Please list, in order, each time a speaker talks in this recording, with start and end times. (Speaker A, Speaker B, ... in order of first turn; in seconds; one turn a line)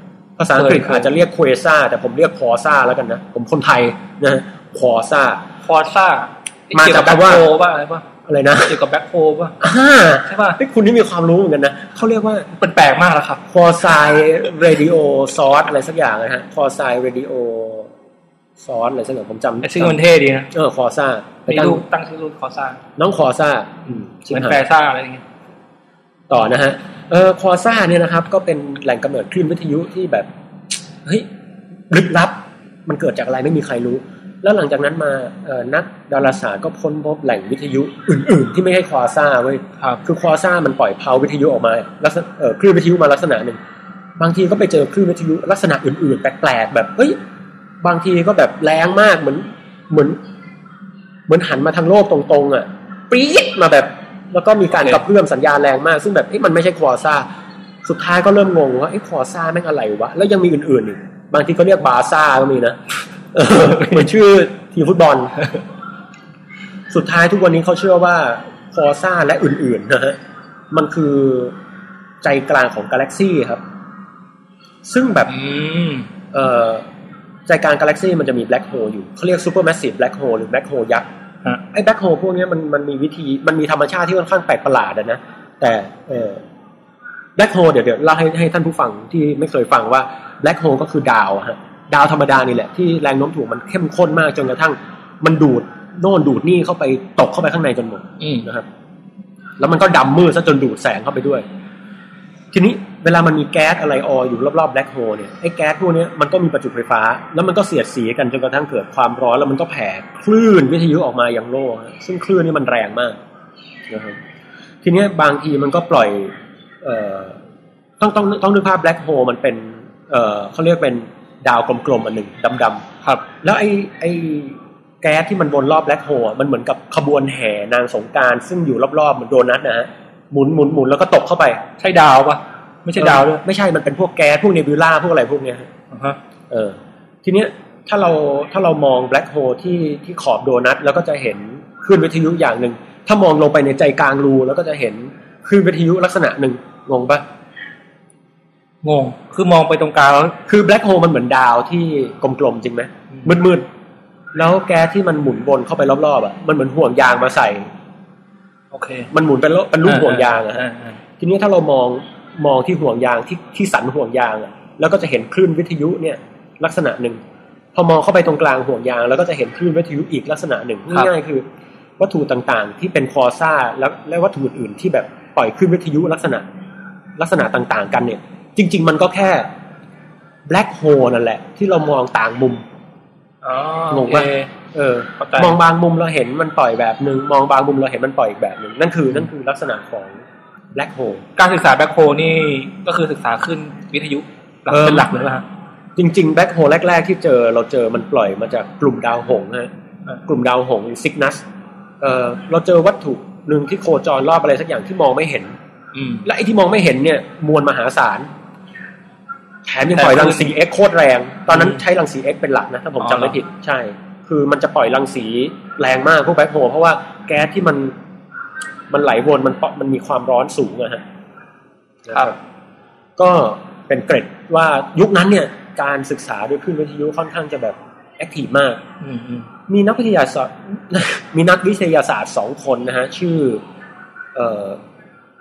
Speaker A: 0.4-5.5
Speaker B: 0.6-1.1
Speaker B: 5.6-8.1
Speaker A: 6.7-7.5
Speaker A: 8.3-8.8
Speaker B: 8.6-9.6
Speaker A: 9.6-12.5
Speaker B: 10.2-10.6
Speaker B: 12.5-13.4
Speaker A: 13.5-17.9
Speaker A: 18.6-20.0
Speaker B: 19.6-20.5
Speaker A: 20.5-21.8
Speaker B: 21.5-22.8
Speaker A: 23.0-24.6
Speaker B: 23.9-25.2
Speaker A: 26.3-30.3
Speaker A: 31.9-43.6
Speaker A: 44.2-47.2
Speaker A: 47.8-50.2
Speaker A: 51.3-57.3
Speaker A: 57.8-62.8
Speaker A: 63.3-65.5
Speaker A: 66.9-70.2
Speaker A: 70.7-71.5
Speaker A: 72.2-73.6
Speaker A: 74.8-75.3
Speaker B: 75.3-76.1
Speaker A: 76.3-76.9
Speaker A: 77.5-81.1
Speaker A: 81.7-86.4
Speaker A: 87.4-98.7
Speaker B: 98.2-98.5
Speaker A: 99.6-101.5
Speaker A: 102.5-113.2
Speaker A: 113.9-114.2
Speaker A: 114.8-117.4
Speaker A: 118.0-122.8
Speaker A: 123.4-131.6
Speaker B: 131.8-133.4
Speaker A: 133.0-135.7
Speaker B: 135.9-136.2
Speaker A: 136.5-147.2
Speaker B: 148.8-150.4
Speaker A: 150.5-153.7
Speaker A: 154.3-157.7
Speaker B: 158.7-159.1
Speaker A: 159.1-160.7
Speaker B: 159.8-161.0
Speaker A: 161.2-167.2
Speaker A: 167.7-171.4
Speaker A: 172.0-176.4
Speaker A: 177.2-179.5
Speaker A: 180.5-182.6
Speaker B: 183.4-184.5
Speaker A: 183.9-190.2
Speaker B: 185.2-185.6
Speaker A: 190.8-191.2
Speaker B: 191.4-195.4
Speaker A: 194.7-195.1
Speaker A: 196.0-199.7
Speaker A: 200.3-201.4
Speaker A: 202.0-205.6
Speaker B: 205.9-206.2
Speaker A: 206.2-208.3
Speaker A: 209.7-217.9
Speaker B: 209.9-210.5
Speaker B: 211.5-211.8
Speaker B: 213.0-213.4
Speaker A: 218.9-221.0
Speaker A: 222.1-222.4
Speaker A: 223.2-228.8
Speaker B: 229.0-229.5
Speaker A: 229.7-233.6
Speaker A: 234.3-234.8